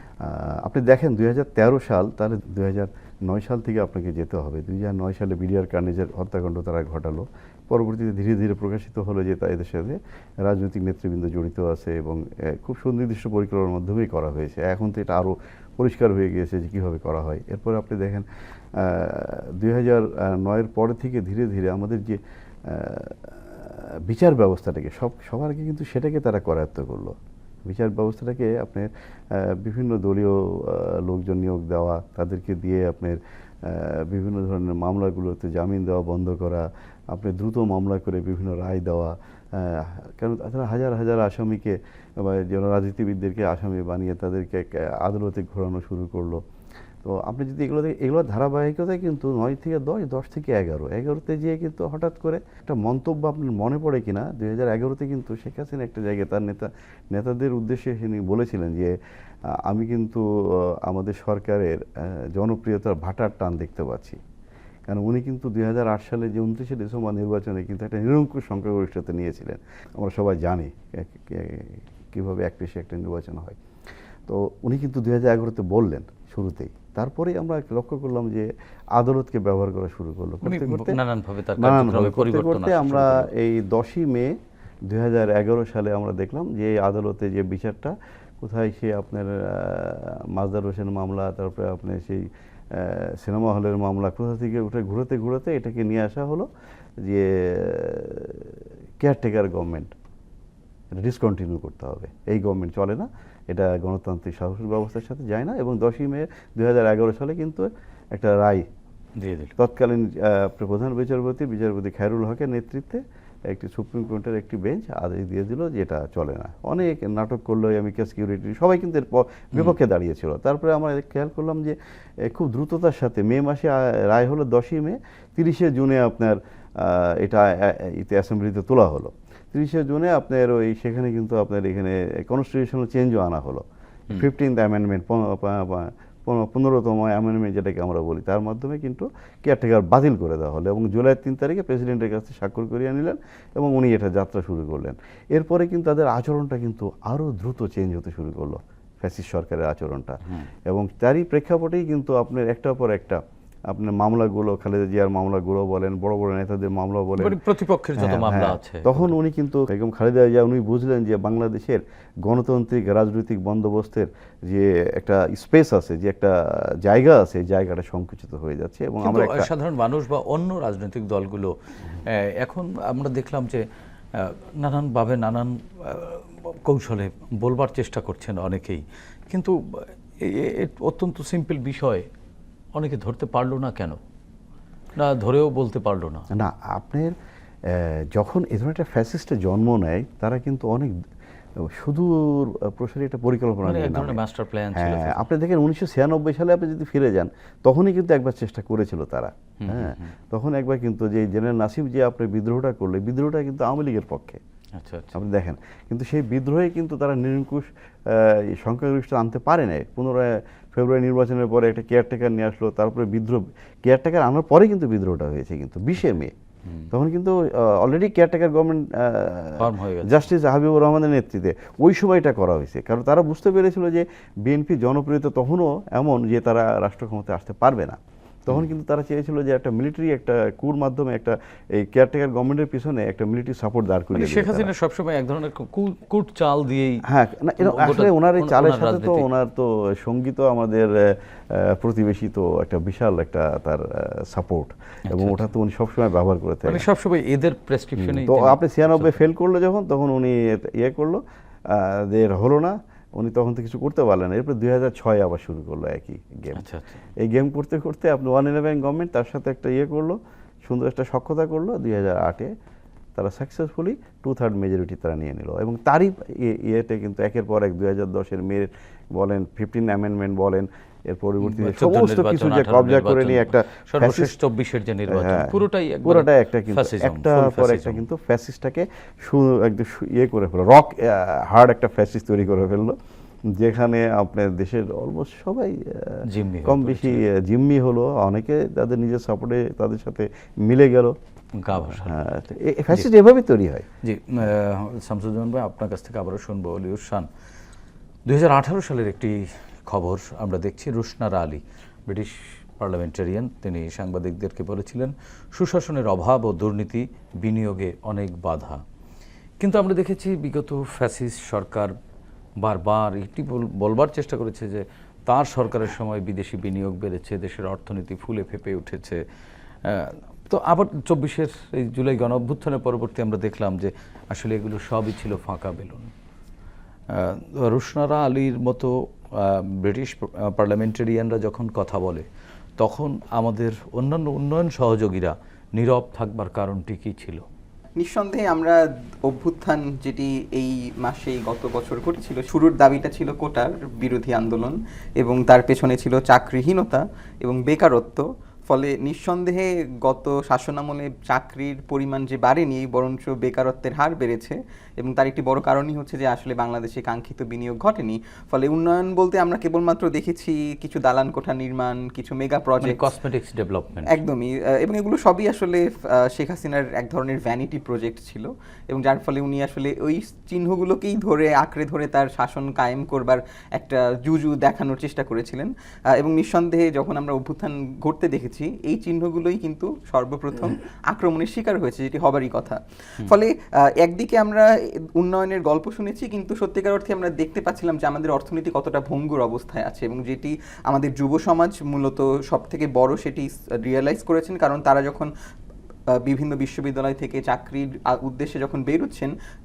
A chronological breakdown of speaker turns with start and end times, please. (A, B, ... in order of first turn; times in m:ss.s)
0:00.2-0:46.4 A
0:47.0-0:59.0 A
0:59.5-1:04.2 A
1:04.9-1:13.6 A
1:14.3-1:21.0 A
1:20.4-1:23.3 B
1:21.6-1:36.5 A
1:37.0-1:39.9 A
1:41.0-1:48.7 A
1:49.2-1:49.6 B
1:49.6-2:37.4 A
2:37.2-2:39.1 B
2:38.0-2:49.5 A
2:49.0-3:02.1 B
3:02.8-3:04.0 B
3:05.0-3:06.3 B
3:06.3-3:07.1 A
3:07.7-3:11.0 A
3:11.6-3:14.2 A
3:13.6-3:15.3 B
3:14.7-3:24.4 A
3:19.6-3:20.2 B
3:24.8-3:25.2 B
3:25.1-3:36.4 A
3:36.9-3:54.7 A
3:39.6-3:40.3 B
3:54.1-3:57.1 B
3:57.1-4:06.9 A
3:57.6-3:59.2 B
4:05.1-4:05.5 B
4:06.7-4:09.3 B
4:08.0-4:16.6 A
4:16.5-4:17.0 B
4:17.2-4:22.5 A
4:23.2-4:34.3 A
4:31.4-4:38.0 B
4:35.1-4:51.2 A
4:46.3-4:47.2 B
4:51.6-4:52.2 B
4:51.7-4:53.9 A
4:54.0-4:57.3 B
4:58.3-5:08.8 B
5:09.6-5:11.9 B
5:12.6-5:19.2 B
5:19.8-5:26.1 B
5:27.1-5:32.3 B
5:32.8-5:37.4 B
5:38.0-6:03.0 C
6:02.8-6:04.2 B
6:04.1-6:35.3 C
6:36.1-6:39.4 C